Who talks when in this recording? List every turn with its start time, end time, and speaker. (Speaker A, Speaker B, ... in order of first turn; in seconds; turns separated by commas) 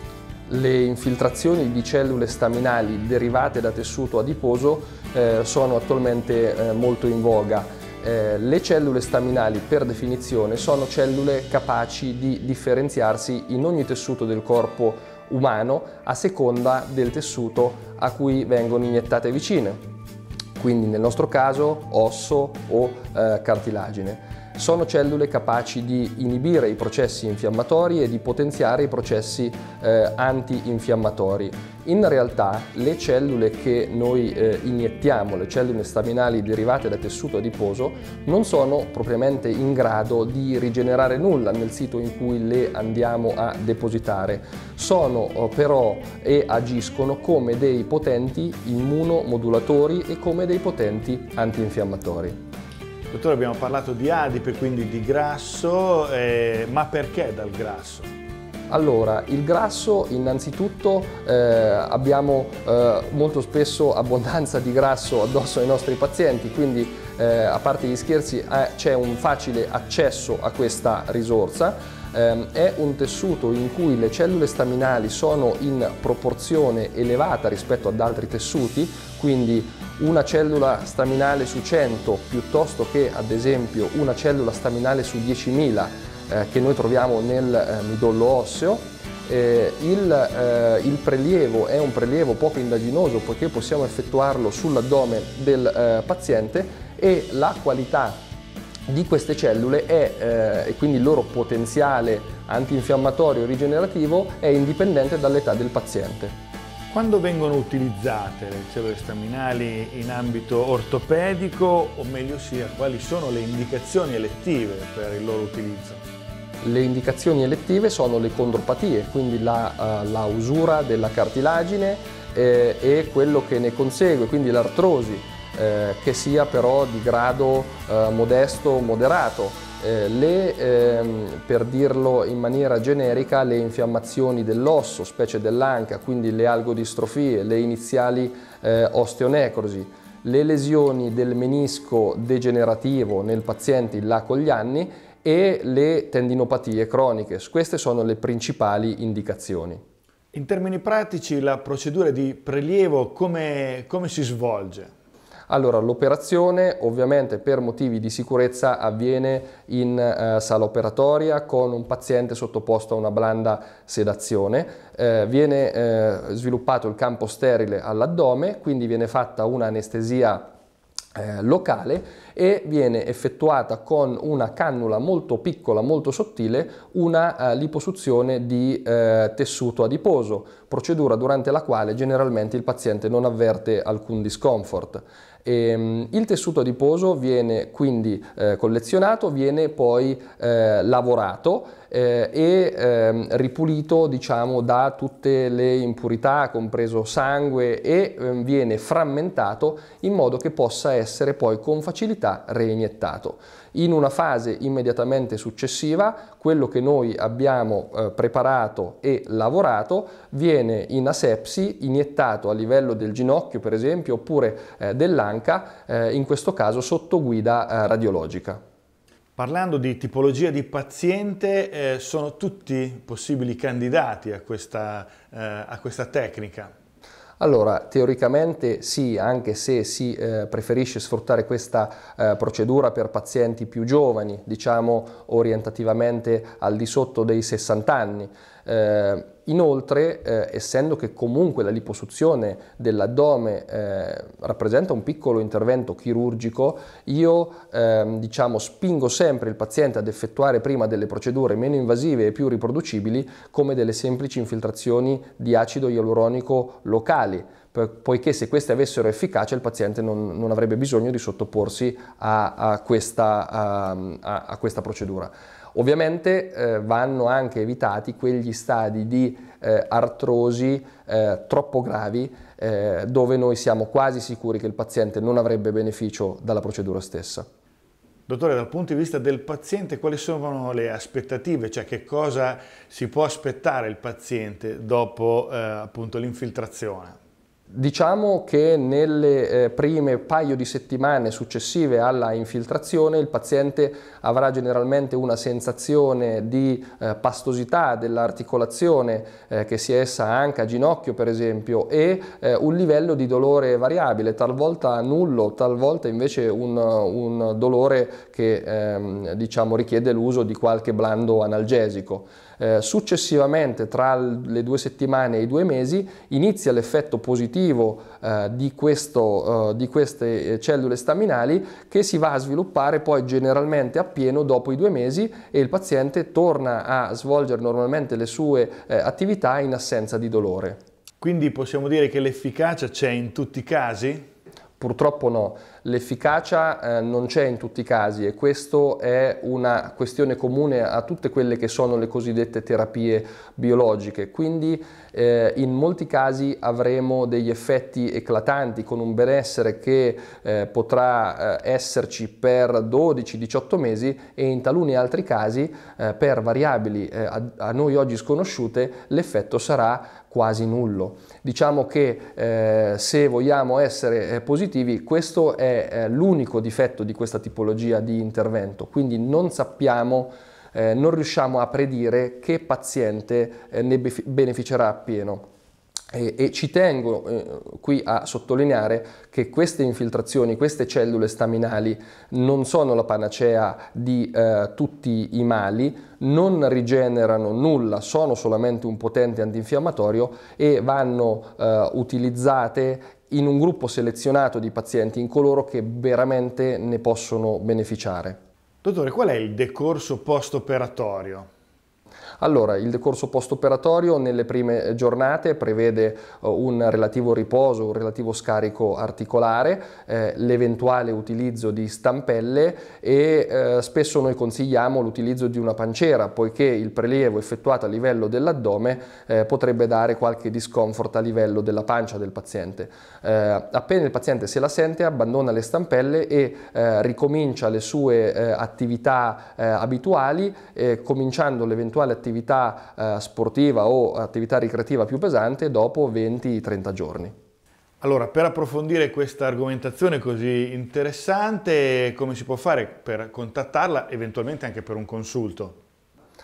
Speaker A: 0.5-19.8, Speaker A: 20.6-52.4, Speaker B: 53.1-58.1, Speaker A: 58.7-98.2, Speaker A: 98.9-106.3, Speaker B: 106.9-116.0, Speaker A: 116.6-149.8, Speaker B: 150.3-154.9, Speaker A: 155.5-170.5, Speaker A: 171.1-218.6, Speaker B: 219.3-226.7, Speaker A: 227.4-277.5, Speaker B: 278.3-287.1, Speaker A: 287.7-330.8, Speaker B: 331.2-334.2, Speaker A: 334.8-375.4, Speaker A: 376.1-398.4, Speaker B: 398.8-401.5, Speaker A: 402.4-437.3, Speaker B: 438.0-445.8